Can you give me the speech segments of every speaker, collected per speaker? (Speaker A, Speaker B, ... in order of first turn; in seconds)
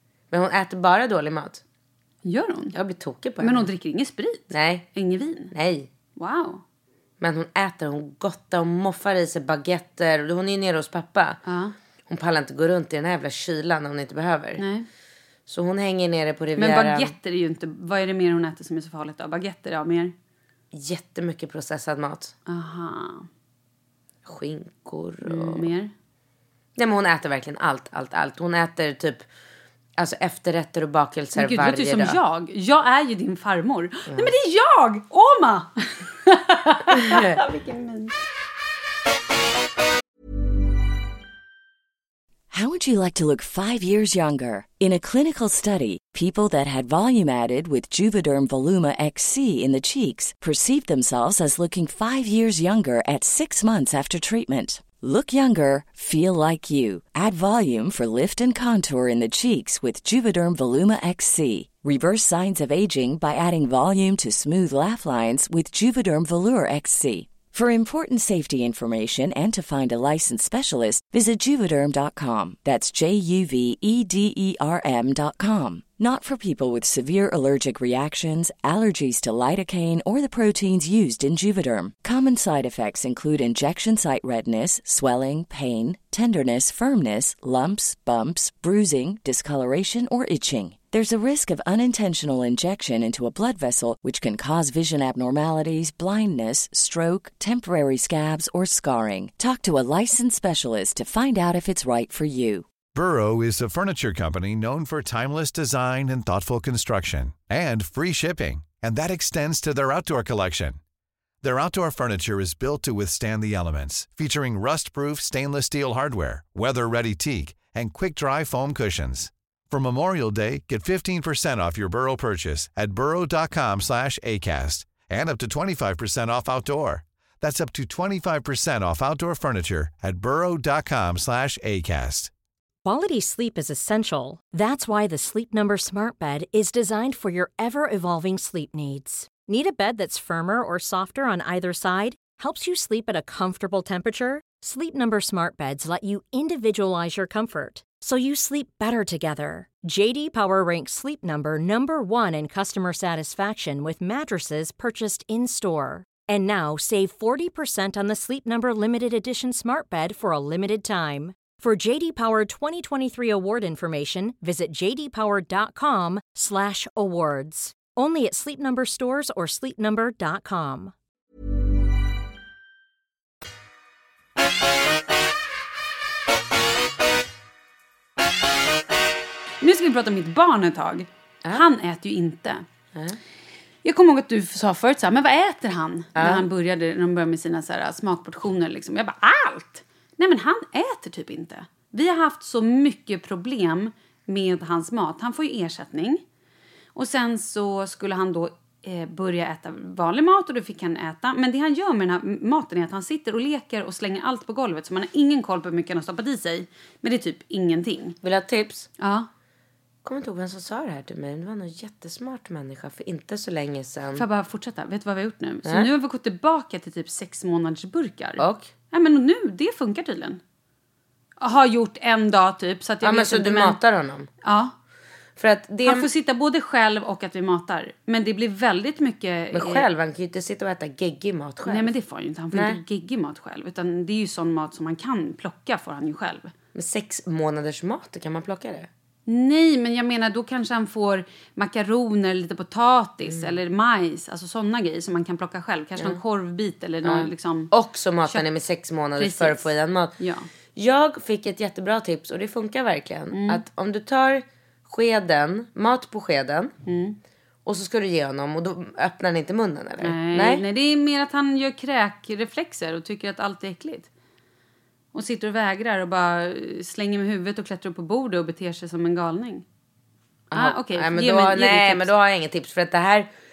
Speaker A: 0.3-1.6, 2.7-3.7, 4.5-4.9, 5.5-5.9, 7.2-11.4, 12.1-14.6, 15.5-17.1, 20.7-22.3, 24.2-25.7, 26.8-29.2, 30.0-32.2, 37.1-37.4, 186.2-186.5, 208.2-208.9, 210.1-214.2, 218.4-218.7, 223.0-224.3, 225.4-226.1, 229.5-231.9, 232.5-232.8, 236.8-238.9, 243.3-243.6, 247.0-250.2, 250.8-256.7, 257.7-260.6, 270.5-273.3
Speaker B: 2.2-2.8, 3.4-5.5, 6.2-6.6, 11.4-11.8, 14.6-14.9, 16.6-20.1, 22.5-23.3, 25.2-25.9, 31.4-38.1, 179.6-182.6, 183.8-196.2, 196.9-208.2, 209.0-209.3, 214.2-220.4, 221.4-223.8, 224.4-224.7, 225.8-229.9, 231.7-236.5, 239.3-247.7, 249.2-250.5, 253.3-253.6, 256.9-257.2, 260.0-264.1, 265.1-269.6, 270.5-272.1
Speaker C: 42.5-102.7
Speaker D: 102.9-110.8, 111.4-132.3
Speaker E: 132.8-170.9